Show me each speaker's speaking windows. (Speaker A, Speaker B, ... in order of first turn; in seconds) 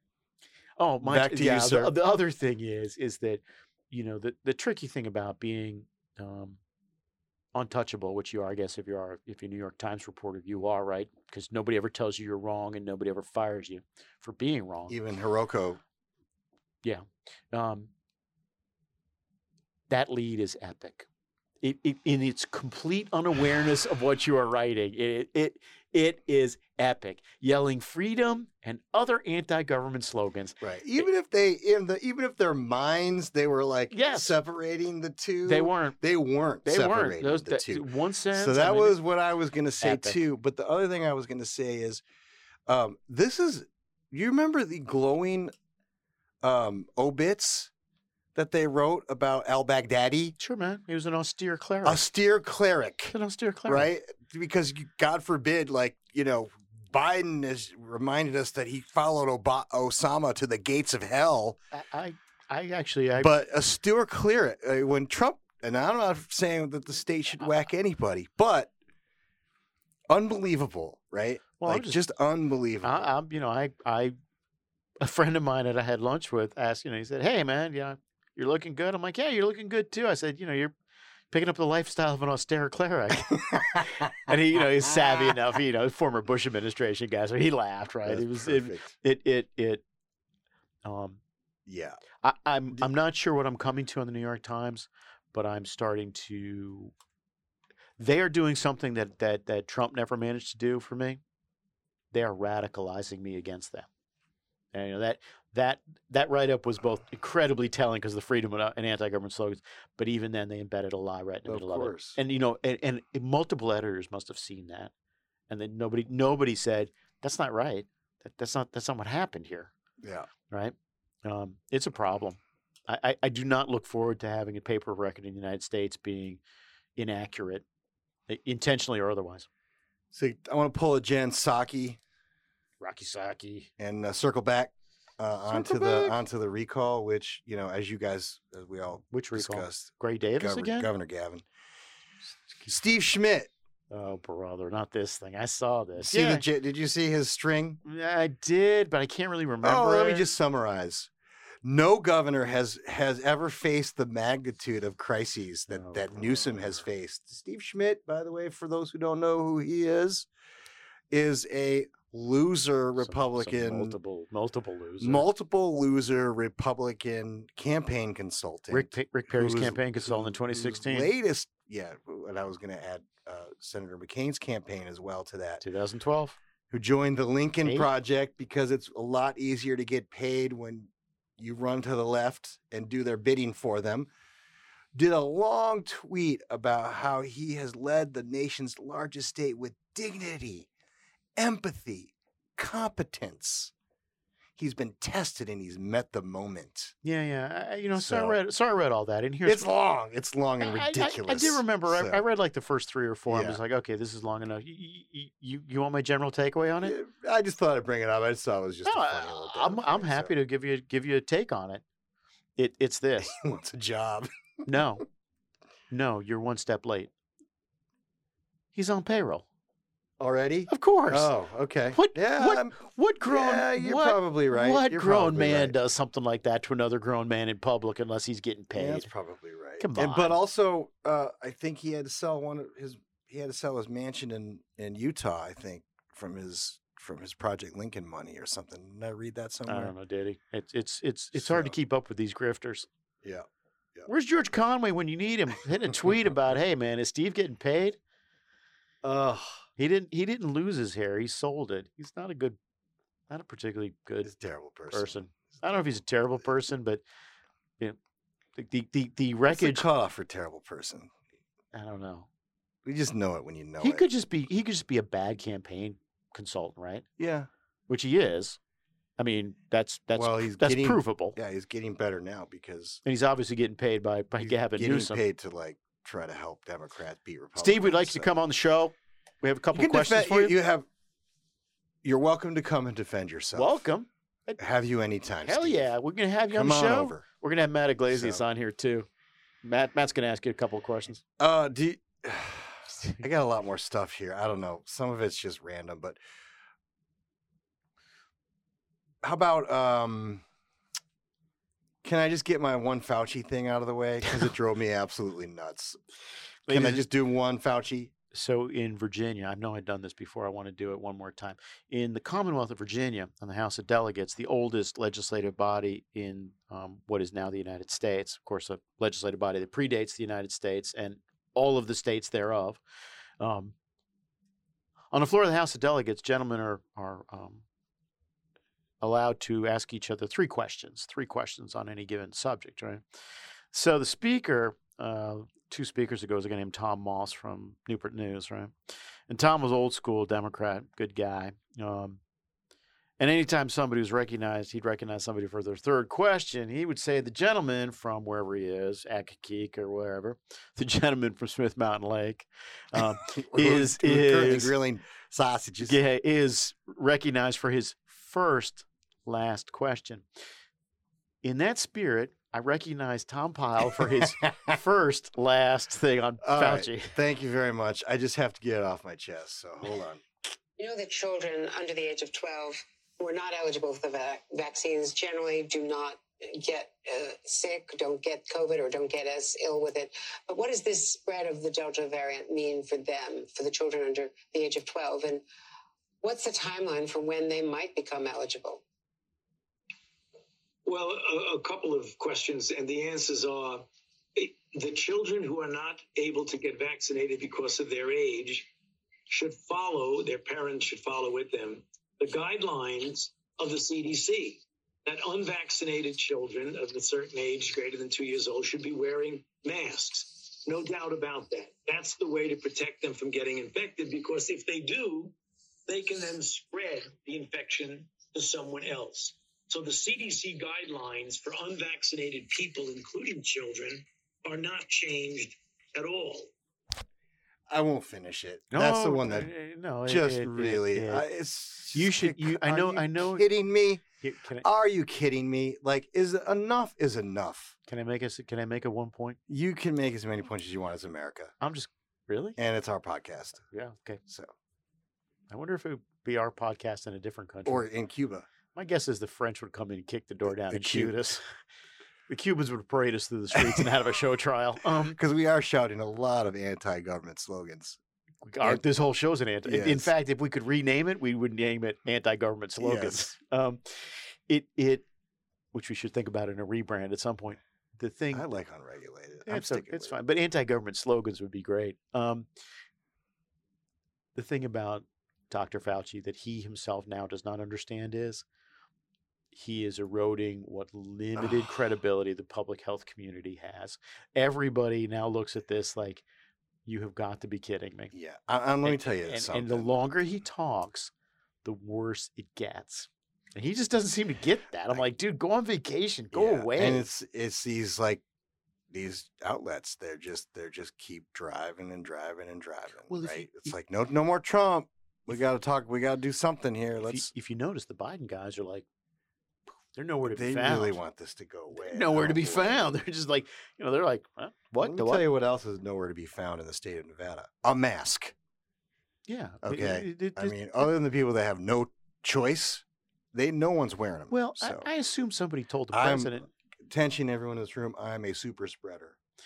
Speaker A: 0.8-6.6, 7.5-15.0, 16.8-17.9, 19.9-21.1, 21.6-31.1, 33.9-34.4, 35.5-36.0, 36.6-39.0, 39.8-40.2, 50.4-52.0, 53.1-53.9, 61.7-63.3, 71.6-72.0, 72.8-74.2, 75.0-80.7, 81.3-83.4, 84.0-89.8, 90.8-91.2, 92.2-96.9, 98.0-101.2, 102.1-103.9, 104.7-114.9, 115.5-119.7, 120.5-126.4, 127.0-127.6, 128.3-129.5, 132.8-133.7, 135.5-136.2, 139.1-140.9, 143.9-146.4, 147.8-150.3, 155.7-156.8, 163.0-165.3, 168.7-171.1, 175.6-176.4, 197.0-199.7, 200.6-206.9, 208.8-211.8, 212.6-213.3, 214.7-215.0, 215.9-217.1, 218.7-219.4, 220.7-221.3, 221.9-229.1, 229.8-230.3, 239.7-242.9, 244.1-248.0, 249.8-252.6, 253.3-254.3, 254.9-257.0, 258.6-259.9, 261.7-262.3, 263.8-267.1, 267.9-268.6, 269.2-271.4, 273.0-275.2, 277.6-280.5, 283.5-284.6, 285.4-289.1, 289.6-291.2, 306.7-307.1, 308.3-322.8, 323.4-323.7, 325.1-327.6, 329.0-333.0, 333.7-338.7, 339.3-342.2, 343.2-354.7, 355.8-360.2, 361.4-367.1, 428.7-431.2, 431.9-433.5, 434.2-434.6, 437.9-439.4, 441.6-442.6, 443.7-444.2, 445.5-447.9, 448.7-451.4, 452.3-455.2, 458.4-465.0, 465.7-468.4, 469.4-472.5, 474.3-478.4, 479.5-486.2, 486.9-488.1, 488.8-491.1, 491.6-497.1, 503.1-503.7, 507.0-508.9, 509.9-511.0, 511.8-515.2, 519.3-520.9, 524.3-526.5
Speaker B: 1.0-1.9, 14.9-15.8, 30.6-42.0, 42.7-45.5, 46.4-47.7, 48.3-50.4, 51.8-53.1, 53.6-61.6, 63.2-68.7, 70.1-73.0, 83.2-84.1, 84.8-85.4, 88.0-88.9, 91.7-92.0, 111.5-112.2, 120.0-120.3, 130.1-132.0, 133.8-141.4, 142.7-143.5, 146.0-147.8, 149.6-151.1, 151.6-160.3, 161.1-164.0, 165.0-175.6, 176.7-184.1, 184.9-190.7, 191.3-193.7, 194.6-196.9, 197.9-198.4, 199.4-202.2, 203.3-203.6, 206.8-210.3, 213.2-214.3, 220.2-225.8, 228.7-239.9, 241.3-241.7, 243.2-244.1, 249.0-249.6, 254.2-255.8, 259.5-261.1, 262.8-264.1, 267.2-267.5, 270.1-273.0, 274.4-278.3, 279.7-280.9, 282.0-283.8, 284.6-285.9, 286.5-287.2, 288.1-288.4, 291.4-296.2, 299.2-300.4, 302.0-306.0, 306.7-308.1, 352.9-356.0, 363.9-364.8, 366.4-370.2, 427.7-429.5, 430.1-434.0, 434.6-437.7, 439.5-441.5, 442.6-443.6, 444.3-444.5, 447.6-448.5, 450.5-451.1, 453.5-453.9, 455.1-458.0, 459.6-460.1, 462.8-463.2, 468.3-470.1, 481.4-481.7, 488.1-489.9, 496.3-498.2, 498.9-507.3, 510.2-512.9, 514.8-518.3, 519.6-524.9, 525.9-529.2
Speaker C: 370.8-385.4, 386.2-388.8
Speaker D: 390.8-398.7, 399.3-415.3, 415.9-426.5